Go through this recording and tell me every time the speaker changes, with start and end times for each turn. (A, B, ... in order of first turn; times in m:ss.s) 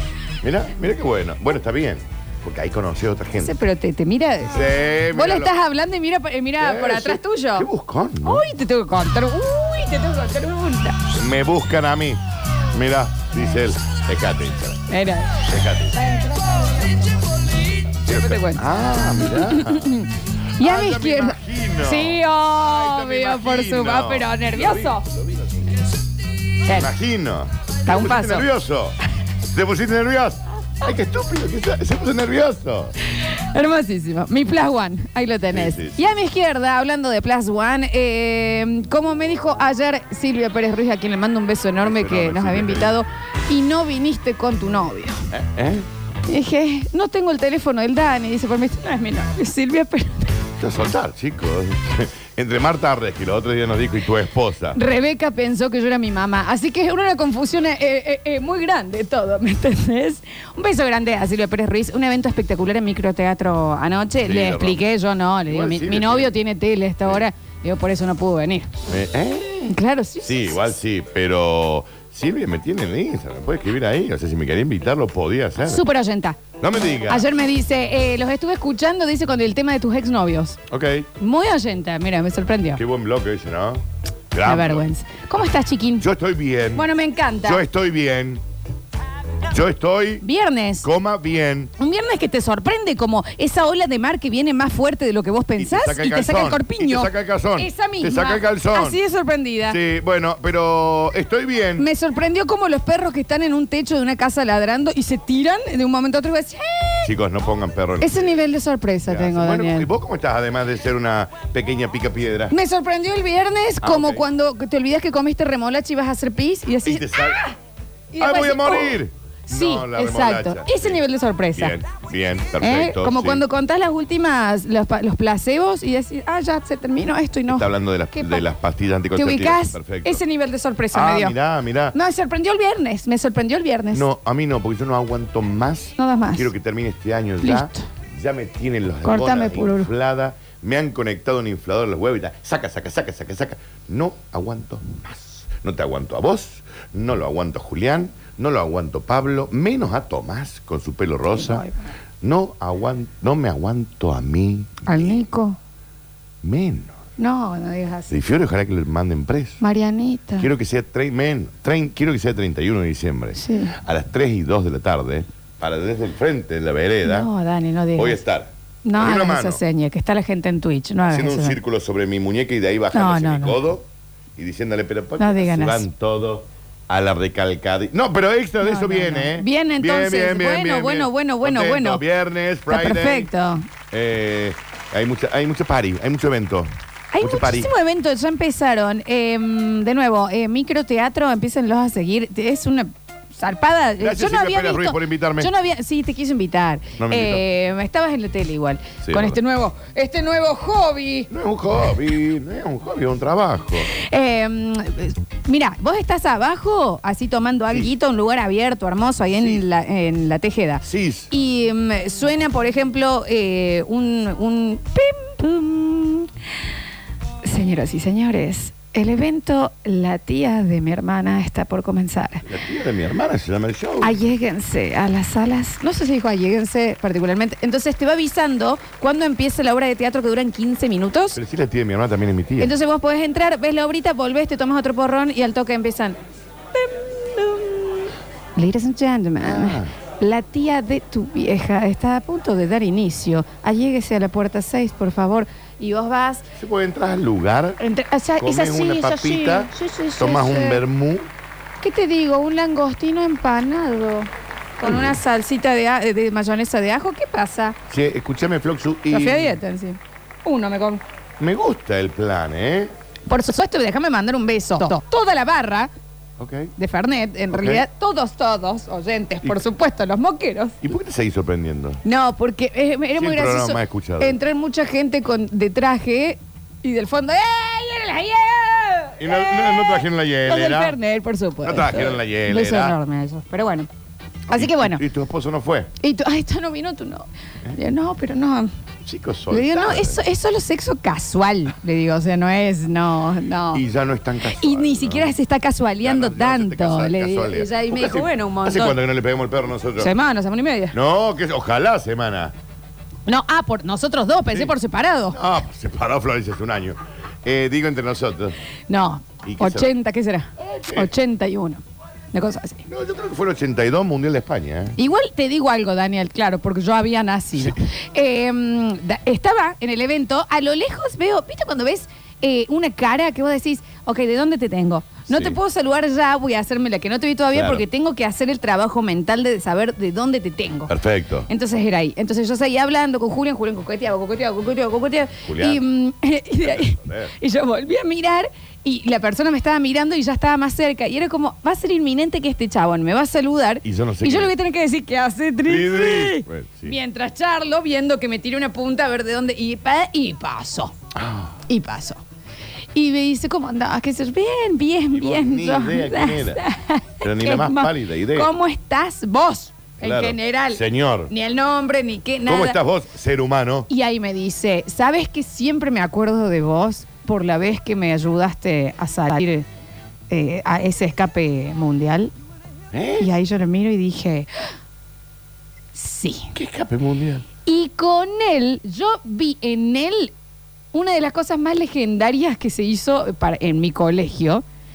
0:00.4-0:03.5 A
0:03.4-0:07.7 B
0:04.5-0:05.5 A
0:06.6-0:08.5 A
0:08.2-0:11.0 B
0:11.1-0:12.2 A
0:12.7-0:14.8 A
0:14.9-0:15.4 B
0:15.4-0:16.0 A
0:16.0-0:17.0 B
0:18.0-0:18.7 B
0:18.1-0:20.0 A
0:19.2-0:25.1 B
0:20.6-0:25.6 A
0:26.7-0:32.9 A
0:27.8-0:28.5 B
0:33.2-0:45.3 B
0:35.5-0:36.0 A
0:41.8-0:43.0 A
0:45.3-0:45.9 A
0:46.3-0:50.4 B
0:50.6-0:54.8 A
0:54.7-1:08.7 B
1:04.2-1:04.8 A
1:05.5-1:06.4 A
1:08.9-1:15.8 A
1:09.7-1:10.7 B
1:15.6-1:16.4 B
1:16.6-1:17.3 A
1:17.1-1:20.6 B
1:20.7-1:21.1 A
1:21.2-1:22.8 B
1:22.8-1:24.9 A
1:24.4-1:26.1 B
1:26.0-1:26.9 A
1:26.7-1:27.6 B
1:27.4-1:28.4 A
1:29.5-1:30.2 A
1:30.2-1:30.9 B
1:30.8-1:31.7 A
1:31.8-1:39.8 B
1:35.6-1:39.0 A
1:39.7-1:41.9 A
1:41.8-1:47.1 B
1:47.0-1:48.4 A
1:48.0-1:49.9 B
1:49.0-1:52.5 A
1:52.5-1:57.6 B
1:53.8-1:54.2 A
1:56.8-1:57.4 A
1:58.1-2:01.8 B
1:58.2-2:01.0 A
2:01.6-2:03.4 A
2:02.6-2:08.4 B
2:07.5-2:10.2 A
2:09.2-2:11.4 B
2:10.9-2:12.0 A
2:11.9-2:14.1 B
2:13.9-2:31.7 A
2:16.0-2:16.5 B
2:17.4-2:17.9 B
2:19.0-2:19.9 B
2:31.3-2:31.9 B
2:32.2-2:35.2 A
2:34.9-2:35.6 B
2:36.4-2:37.0 A
2:37.2-2:38.1 B
2:38.1-2:39.6 A
2:39.6-2:40.5 B
2:40.4-2:47.3 A
2:43.4-2:43.8 B
2:47.0-2:48.2 B
2:48.0-2:49.6 A
2:48.8-2:51.6 B
2:51.0-3:03.3 A
2:52.9-2:53.6 B
2:55.2-2:55.9 B
2:58.6-3:02.0 B
3:02.7-3:03.7 B
3:03.9-3:07.7 A
3:07.1-3:21.3 B
3:14.0-3:15.5 A
3:17.0-3:17.4 A
3:19.0-3:19.4 A
3:21.3-3:23.9 A
3:23.8-3:36.3 B
3:29.3-3:29.6 A
3:30.8-3:31.3 A
3:37.4-3:42.5 B
3:42.4-3:44.2 A
3:44.0-3:51.4 B
3:51.4-3:52.7 A
3:52.6-3:56.2 B
3:56.8-4:06.4 B
3:59.4-3:59.9 A
4:06.6-4:07.8 A
4:07.8-4:10.8 B
4:08.4-4:11.3 A
4:11.8-4:17.8 B
4:14.8-4:15.2 A
4:17.9-4:19.6 A
4:19.1-4:21.0 B
4:21.4-4:22.9 A
4:23.3-4:25.9 B
4:26.4-4:26.7 A
4:26.8-4:30.8 B
4:27.5-4:27.8 A
4:30.8-4:32.0 A
4:32.0-4:43.9 B
4:33.2-4:34.4 A
4:39.2-4:41.0 A
4:41.6-4:43.0 A
4:44.5-4:45.0 B
4:44.5-4:45.9 A
4:46.0-4:48.7 B
4:49.0-4:50.2 A
4:49.5-4:53.8 B
4:53.7-4:55.4 A
4:54.5-4:59.0 B
4:56.0-5:00.1 A
5:00.0-5:01.0 B
5:00.9-5:02.6 A
5:03.3-5:05.4 B
5:05.3-5:08.6 A
5:08.9-5:11.8 B
5:09.4-5:09.9 A
5:10.6-5:11.1 A
5:12.3-5:12.9 B
5:12.9-5:15.0 A
5:15.0-5:30.9 B
5:17.5-5:17.8 A
5:25.3-5:25.6 A
5:27.5-5:27.9 A
5:30.9-5:31.5 A
5:31.5-5:51.0 B
5:35.4-5:35.8 A
5:36.6-5:37.3 A
5:43.8-5:44.5 A
5:45.6-5:47.0 A
5:51.2-5:51.6 A
5:51.7-5:52.2 B
5:52.9-6:02.8 B
5:55.1-5:56.6 A
5:57.2-5:58.5 A
6:00.0-6:01.3 A
6:02.5-6:03.9 A
6:03.9-6:09.7 B
6:10.3-6:12.3 B
6:12.9-6:13.3 A
6:13.2-6:14.5 B
6:15.9-6:16.5 B
6:16.5-6:17.5 A
6:17.6-6:20.3 B
6:20.9-6:24.6 B